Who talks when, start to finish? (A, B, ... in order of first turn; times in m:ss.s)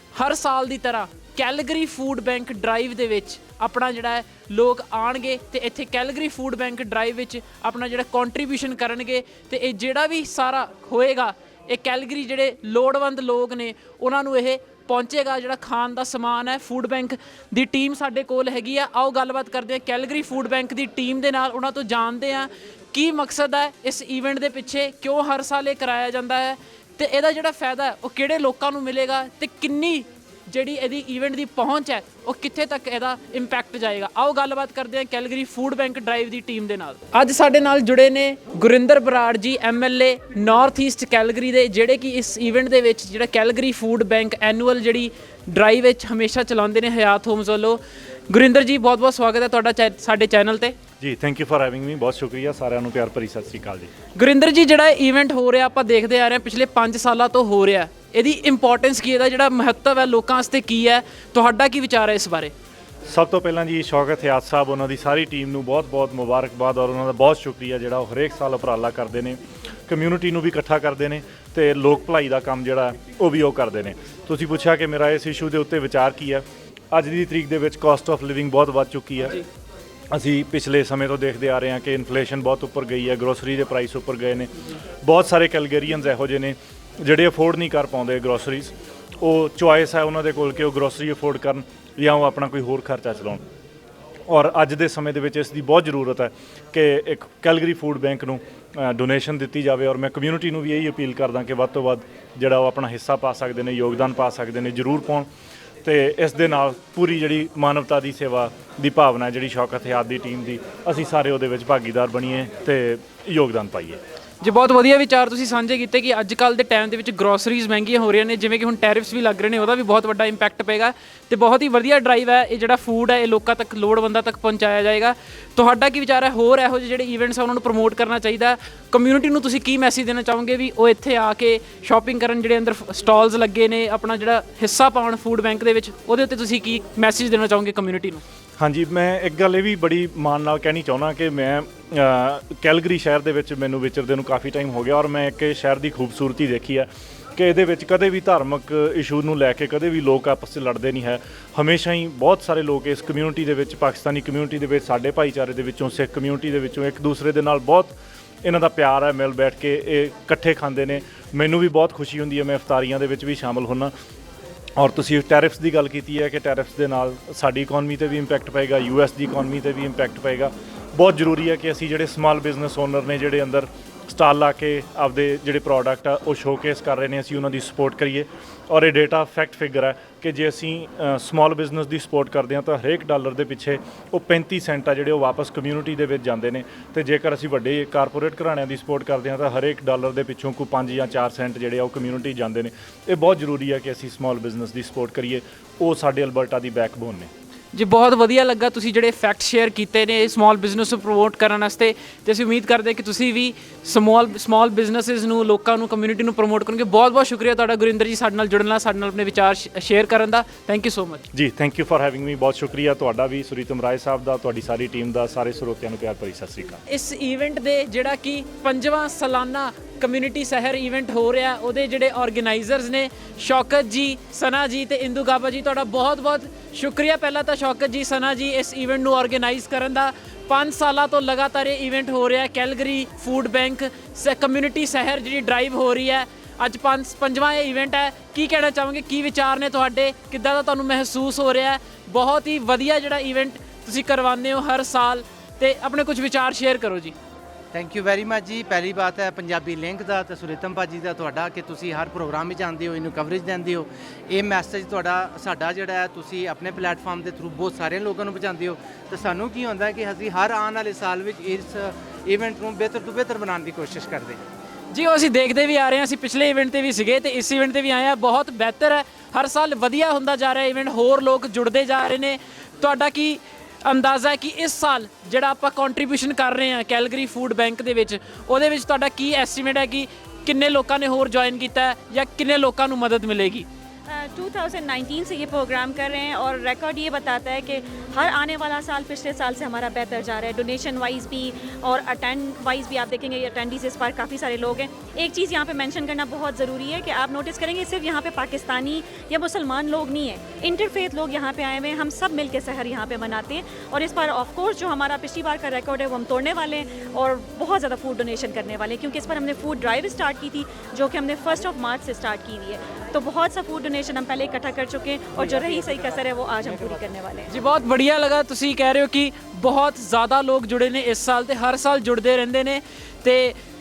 0:00.1-0:50.8 A
0:51.0-0:53.9 B
0:54.2-1:02.5 A
1:03.1-1:19.4 B
1:20.1-1:24.5 B
1:25.0-1:33.4 B
1:34.3-1:45.3 B
1:45.8-1:54.0 B
1:54.4-2:18.2 A
2:18.6-2:43.9 B
2:44.8-3:17.3 B
3:17.7-3:31.2 A
3:31.3-3:36.8 B
3:36.9-4:07.1 A
4:07.7-4:24.4 C
4:24.9-4:43.7 A
4:44.1-5:17.5 D
5:17.5-5:23.6 A